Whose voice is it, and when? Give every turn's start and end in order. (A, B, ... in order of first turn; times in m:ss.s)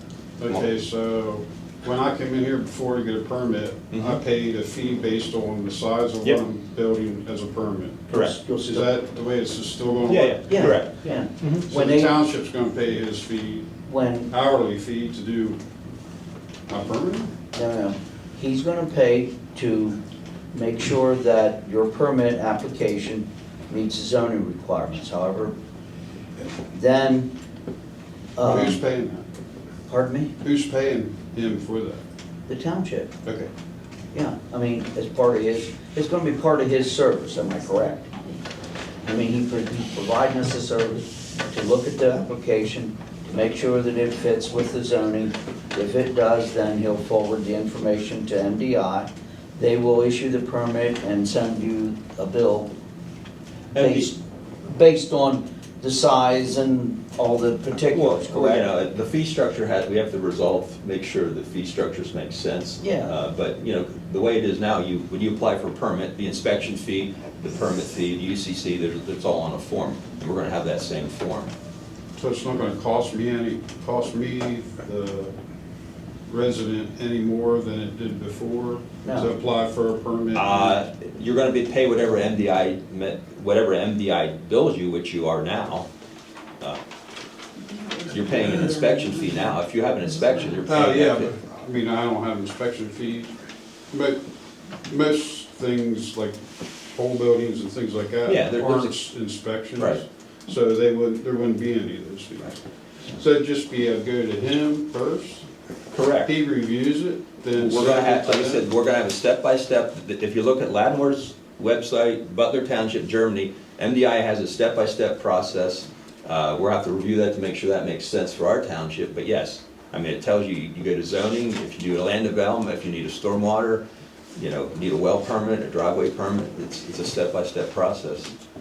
0:00.4-0:08.1 A
0:03.9-0:04.2 B
0:08.1-0:08.4 B
0:08.1-0:08.9 C
0:08.6-0:10.8 A
0:10.1-0:10.9 B
0:10.5-0:12.2 C
0:11.5-0:13.7 A
0:13.9-0:14.3 C
0:14.3-0:15.6 A
0:16.7-0:17.3 A
0:17.5-0:20.0 C
0:20.5-0:25.5 C
0:26.7-0:27.3 C
0:28.4-0:28.8 C
0:28.4-0:29.2 A
0:29.9-0:30.3 C
0:30.4-0:32.0 A
0:32.5-0:33.1 C
0:33.2-0:33.5 A
0:34.1-0:38.1 C
0:39.0-0:52.7 C
0:53.7-0:54.1 B
0:53.8-0:58.7 C
0:57.9-1:11.5 B
1:02.8-1:03.2 C
1:12.2-1:15.3 A
1:16.3-1:20.8 A
1:19.0-1:19.3 C
1:20.4-1:25.9 B
1:28.1-1:31.3 B
1:30.7-1:33.3 A
1:33.9-1:34.2 A
1:34.9-1:36.4 A
1:36.9-1:42.6 A
1:38.2-1:38.9 B
1:43.1-1:45.5 A
1:45.9-1:46.3 B
1:46.2-1:48.6 A
1:47.6-2:03.8 B
2:04.4-2:08.3 B